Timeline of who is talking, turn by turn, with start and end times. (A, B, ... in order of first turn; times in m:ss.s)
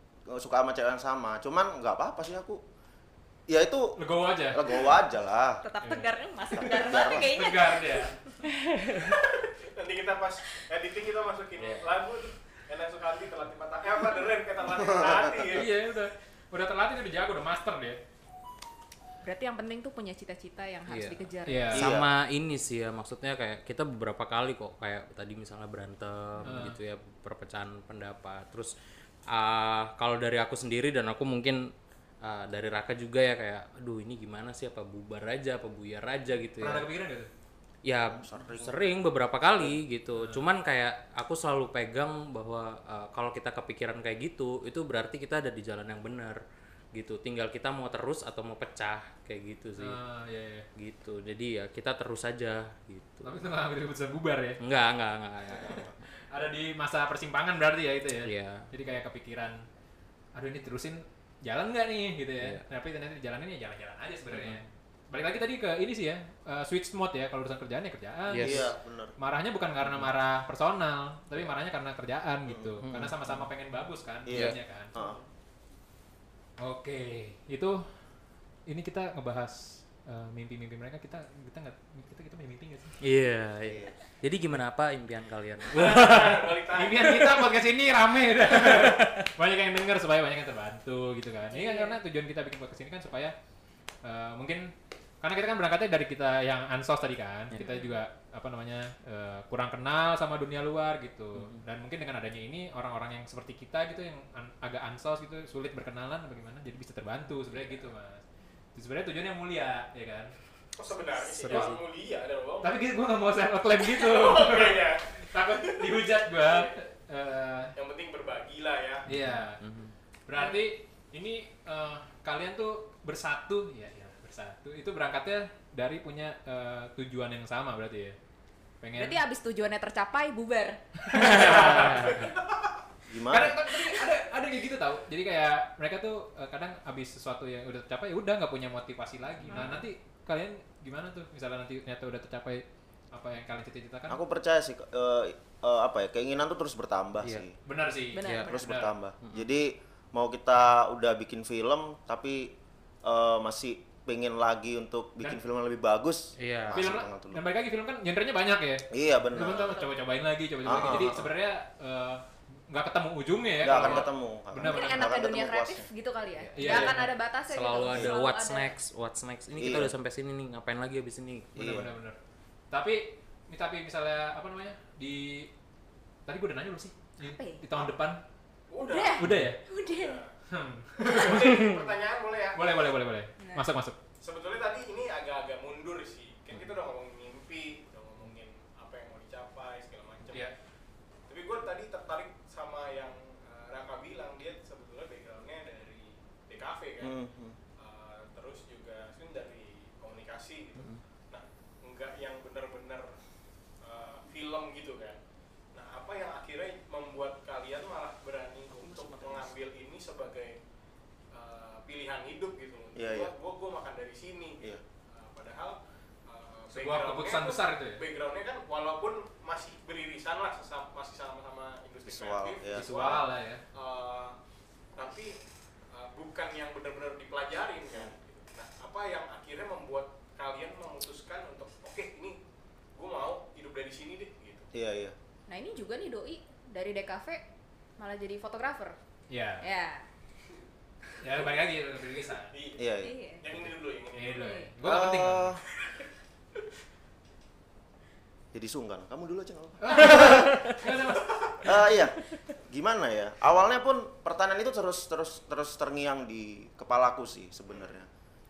0:00.3-0:02.6 A
0:03.5-0:05.6 A
0:04.0-0:04.6 B
0:05.6-0:08.1 C
0:05.8-0:06.1 B
0:06.5-0:07.4 A
0:07.1-0:08.2 B
0:09.2-0:15.7 D
0:11.6-0:11.9 E
0:14.8-0:15.3 A
0:15.5-0:18.0 B
0:19.2-0:21.8 C
0:20.9-0:28.8 E
0:21.5-0:21.9 B
0:21.7-0:22.1 A
0:26.4-0:26.8 B
0:29.3-0:36.9 E
0:36.6-0:37.3 B
0:37.8-0:46.4 E
0:38.0-0:39.8 A
0:46.9-0:50.0 E
0:49.8-0:50.7 B
0:50.8-0:53.4 E
0:53.2-0:54.6 B
0:54.6-0:55.9 E
0:55.5-0:55.9 A
0:56.3-0:59.6 B
0:58.2-0:58.7 E
1:00.4-1:15.0 B
1:04.3-1:04.7 E
1:08.3-1:08.7 E
1:08.4-1:09.2 A
1:12.5-1:12.8 A
1:12.8-1:13.4 E
1:14.3-1:15.2 A
1:16.6-1:17.8 B
1:18.7-1:23.0 B
1:23.0-1:26.6 E
1:23.6-1:24.0 A
1:25.7-1:27.4 D
1:25.9-1:33.4 B
1:28.5-1:29.2 E
1:31.5-1:32.0 C
1:34.0-1:48.2 B
1:37.6-1:38.0 C
1:41.4-1:41.6 E
1:48.7-1:50.4 B
1:50.8-1:52.7 D
1:51.2-1:51.8 E
1:51.5-1:51.8 B
1:52.6-1:57.7 B
1:53.8-1:56.8 D
1:57.8-1:59.1 D
1:59.1-1:59.6 B
1:59.1-1:59.9 E
2:00.3-2:08.2 B
2:00.4-2:00.7 C
2:08.8-2:09.2 B
2:09.0-2:11.9 C
2:11.0-2:12.3 B
2:11.2-2:12.2 E
2:13.1-2:13.6 A
2:13.3-2:24.2 B
2:19.4-2:19.8 C
2:24.1-2:27.6 A
2:27.6-2:28.9 B
2:28.1-2:28.6 C
2:28.2-2:28.5 E
2:28.5-2:37.4 A
2:36.4-2:36.8 E
2:36.7-2:45.0 B
2:38.9-2:39.8 A
2:39.4-2:39.9 C
2:40.6-2:41.3 A
2:43.6-2:45.9 A
2:44.6-2:48.7 C
2:46.4-2:51.6 E
2:46.6-2:47.1 B
2:47.9-2:48.2 A
2:49.5-2:49.9 A
2:51.6-2:51.9 A
2:51.6-2:52.2 B
2:52.7-2:55.5 B
2:56.3-2:58.2 B
2:57.2-2:57.7 C
2:58.7-3:00.3 D
2:58.8-3:00.2 C
2:59.2-2:59.6 B
3:00.5-3:01.7 B
3:01.0-3:02.9 D
3:01.3-3:01.8 E
3:02.5-3:04.0 B
3:03.4-3:03.7 C
3:04.2-3:10.5 D
3:11.3-3:17.2 D
3:17.0-3:17.6 A
3:17.8-3:23.1 D
3:23.8-3:25.2 D
3:25.7-3:30.6 D
3:28.8-3:29.5 E
3:31.3-3:44.4 D
3:33.0-3:33.3 A
3:36.7-3:38.0 B
3:42.1-3:42.9 A
3:42.7-3:43.6 B
3:45.0-3:45.4 D
3:45.9-3:52.4 D
3:53.0-3:54.7 D
3:54.7-3:55.1 A
3:55.5-3:57.4 C
3:58.0-3:59.0 C
3:59.3-3:59.6 B
3:59.6-4:00.0 C
4:01.2-4:02.5 B
4:01.2-4:01.6 D
4:02.4-4:04.6 D
4:02.8-4:03.2 A
4:03.0-4:03.5 C
4:04.1-4:05.6 B
4:04.2-4:04.7 C
4:04.8-4:05.6 A
4:08.5-4:10.5 A
4:09.8-4:11.8 B
4:11.6-4:18.1 A